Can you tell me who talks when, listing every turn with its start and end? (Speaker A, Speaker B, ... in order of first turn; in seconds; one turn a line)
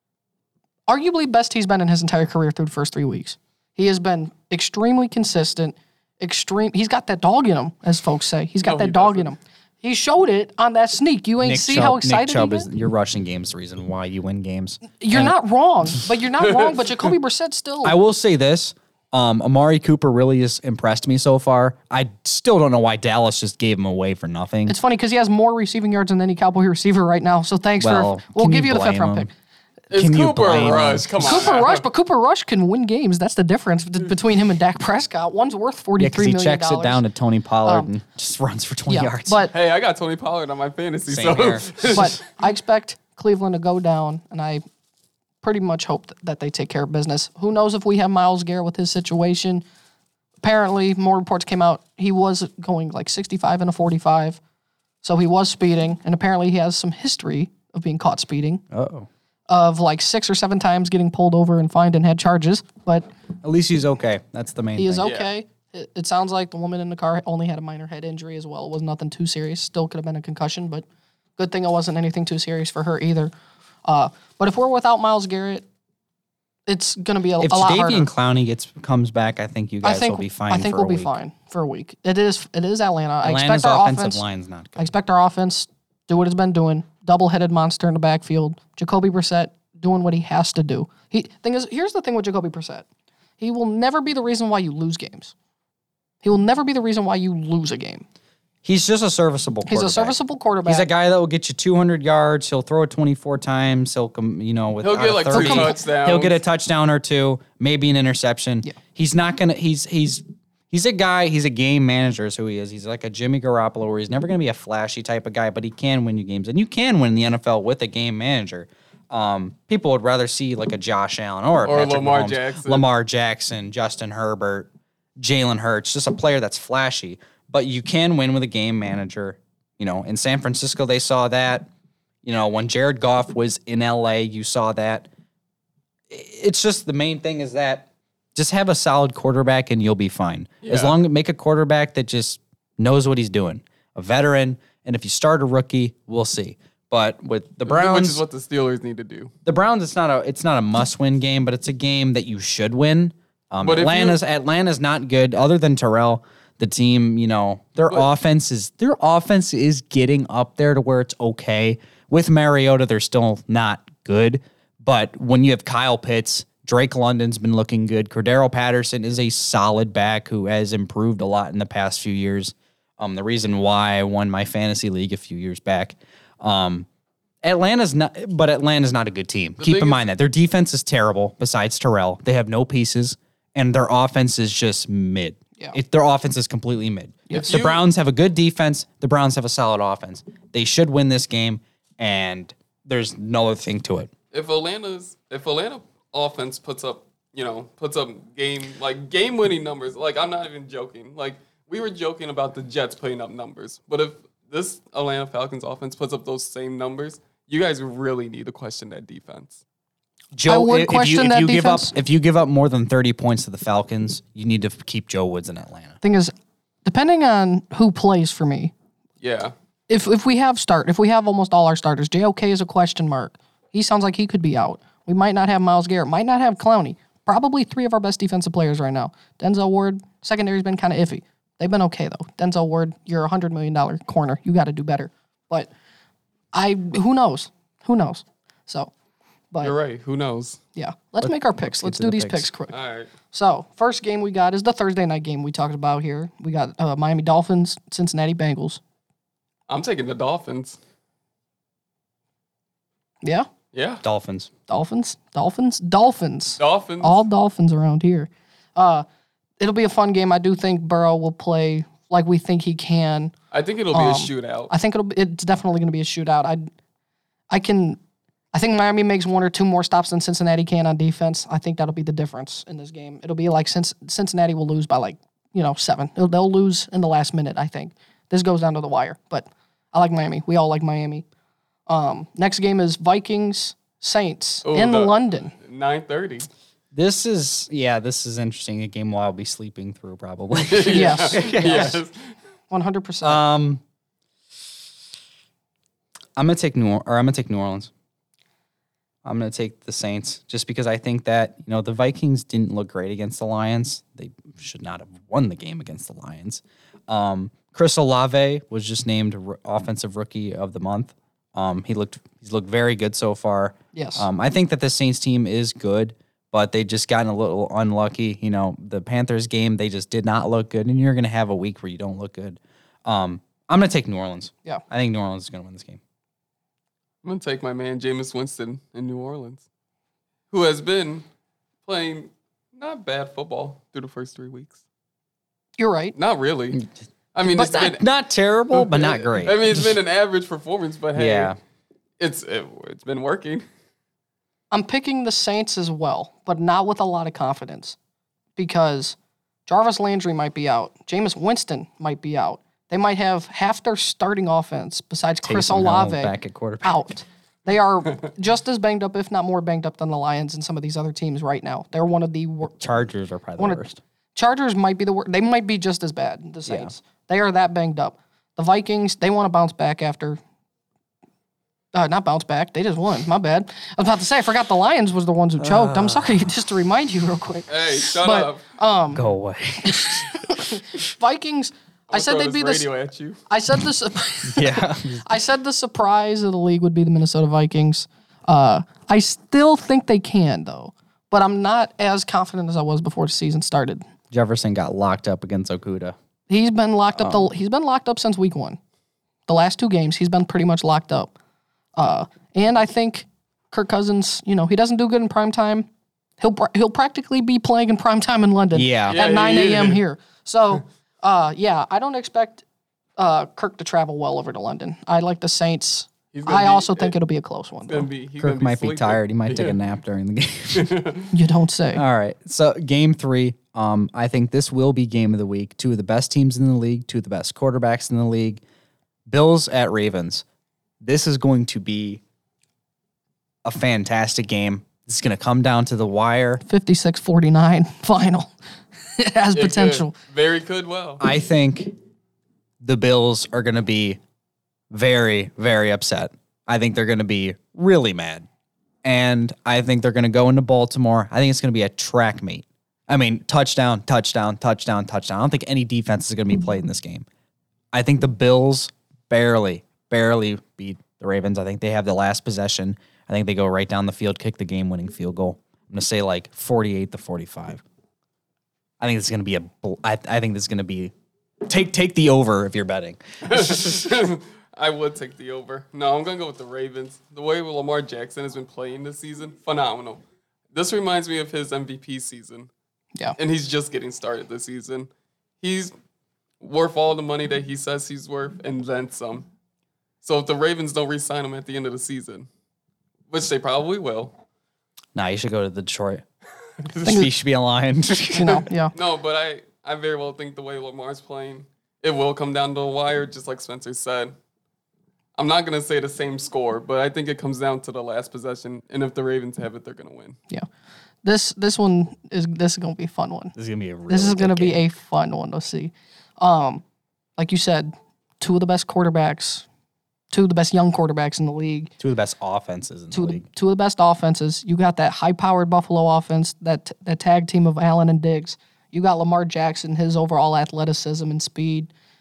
Speaker A: 0.9-12.7
Speaker B: 8.6-9.3
Speaker C: 11.4-15.3
Speaker A: 15.0-18.0
Speaker C: 17.8-24.8
Speaker A: 24.7-29.3
Speaker C: 27.8-29.3
Speaker B: 29.9-31.8
Speaker C: 29.9-31.4
Speaker A: 31.2-37.0
Speaker C: 36.0-39.5
Speaker A: 37.6-37.9
Speaker A: 38.9-39.5
Speaker B: 39.5-42.1
Speaker C: 41.1-41.9
Speaker A: 41.9-44.6
Speaker A: 45.4-49.6
Speaker A: 50.4-54.4
Speaker A: 55.0-58.6
Speaker C: 58.7-59.1
Speaker A: 59.5-63.1
Speaker C: 63.4-65.1
Speaker A: 64.8-70.8
Speaker B: 65.0-65.3
Speaker A: 71.4-73.3
Speaker A: 73.8-75.6
Speaker A: 76.7-78.1
Speaker C: 77.4-81.1
Speaker A: 79.8-84.2
Speaker C: 83.2-84.9
Speaker A: 84.8-92.9
Speaker A: 93.4-95.3
Speaker A: 96.2-98.1
Speaker C: 98.6-131.7
Speaker A: 99.7-100.9
Speaker B: 104.8-106.4
Speaker A: 105.3-105.8
Speaker B: 121.6-122.9
Speaker C: 132.2-135.1
Speaker C: 136.1-148.2
Speaker B: 140.6-140.9
Speaker B: 147.7-149.3
Speaker C: 149.4-176.9
Speaker B: 153.6-154.2
Speaker C: 177.4-194.1
Speaker B: 179.6-180.0
Speaker A: 187.3-187.6
Speaker B: 187.3-187.8
Speaker B: 194.3-209.6
Speaker C: 210.3-216.0
Speaker A: 210.5-211.9
Speaker A: 216.0-216.3
Speaker A: 216.8-218.7
Speaker B: 219.2-219.5
Speaker A: 219.9-235.7
Speaker A: 236.5-238.9
Speaker B: 239.6-240.6
Speaker A: 240.8-242.8
Speaker C: 241.2-242.5
Speaker B: 242.7-243.1
Speaker A: 243.3-248.8
Speaker B: 249.7-250.8
Speaker A: 253.2-253.5
Speaker B: 253.7-254.0
Speaker C: 254.0-254.5
Speaker A: 254.7-259.0
Speaker B: 256.6-257.2
Speaker A: 259.6-263.3
Speaker B: 263.5-264.7
Speaker A: 263.9-266.7
Speaker A: 267.5-268.0
Speaker A: 268.5-281.2
Speaker A: 281.9-285.5
Speaker B: 284.6-286.5
Speaker C: 286.9-292.0
Speaker B: 290.7-292.2
Speaker A: 290.9-292.0
Speaker A: 292.7-293.4
Speaker C: 293.2-293.8
Speaker C: 296.4-297.9
Speaker C: 299.2-326.0
Speaker A: 313.9-314.2
Speaker B: 327.2-329.6
Speaker B: 330.5-331.2
Speaker B: 331.9-334.8
Speaker A: 335.8-336.1
Speaker B: 336.2-336.8
Speaker B: 337.3-338.0
Speaker C: 337.5-339.9
Speaker B: 338.7-341.5
Speaker C: 341.1-341.6
Speaker B: 342.2-343.7
Speaker A: 344.7-348.0
Speaker A: 348.6-349.2
Speaker A: 349.7-362.8
Speaker C: 355.4-357.0
Speaker C: 362.8-364.0
Speaker A: 363.6-370.4
Speaker C: 366.7-366.9
Speaker A: 371.9-379.2
Speaker C: 375.6-376.5
Speaker B: 377.7-378.6
Speaker C: 379.1-380.3
Speaker A: 379.8-382.9
Speaker B: 382.1-383.4
Speaker A: 383.5-394.0
Speaker C: 384.4-385.2
Speaker C: 394.3-396.2
Speaker A: 396.5-398.8
Speaker C: 397.2-397.5
Speaker A: 399.5-401.3
Speaker A: 402.0-405.9
Speaker A: 406.4-412.6
Speaker C: 408.7-409.2
Speaker B: 409.1-410.0
Speaker A: 413.2-418.1
Speaker B: 416.3-417.1
Speaker B: 417.9-419.8
Speaker C: 418.4-420.9
Speaker B: 420.7-421.3
Speaker A: 421.3-422.0
Speaker C: 421.9-428.6
Speaker C: 429.3-430.4
Speaker C: 431.0-432.2
Speaker C: 433.6-436.6
Speaker A: 436.6-438.5
Speaker A: 439.2-440.1
Speaker B: 439.5-441.2
Speaker C: 441.2-441.9
Speaker C: 442.8-444.2
Speaker C: 444.9-448.5
Speaker C: 449.0-457.2
Speaker C: 457.9-467.8
Speaker C: 469.0-471.1
Speaker C: 471.7-474.1
Speaker B: 473.5-480.2
Speaker B: 480.7-482.7
Speaker B: 483.4-485.1
Speaker B: 485.6-485.9
Speaker B: 486.6-489.5
Speaker B: 490.2-492.5
Speaker B: 493.3-494.3
Speaker C: 495.1-496.2
Speaker C: 497.0-498.6
Speaker A: 497.0-497.3
Speaker A: 498.3-498.9
Speaker B: 498.9-504.3
Speaker B: 505.4-510.4
Speaker A: 511.2-513.5
Speaker C: 513.5-514.8
Speaker A: 514.1-516.8
Speaker A: 517.4-519.7
Speaker A: 520.3-521.9
Speaker C: 522.0-523.4
Speaker A: 523.1-531.9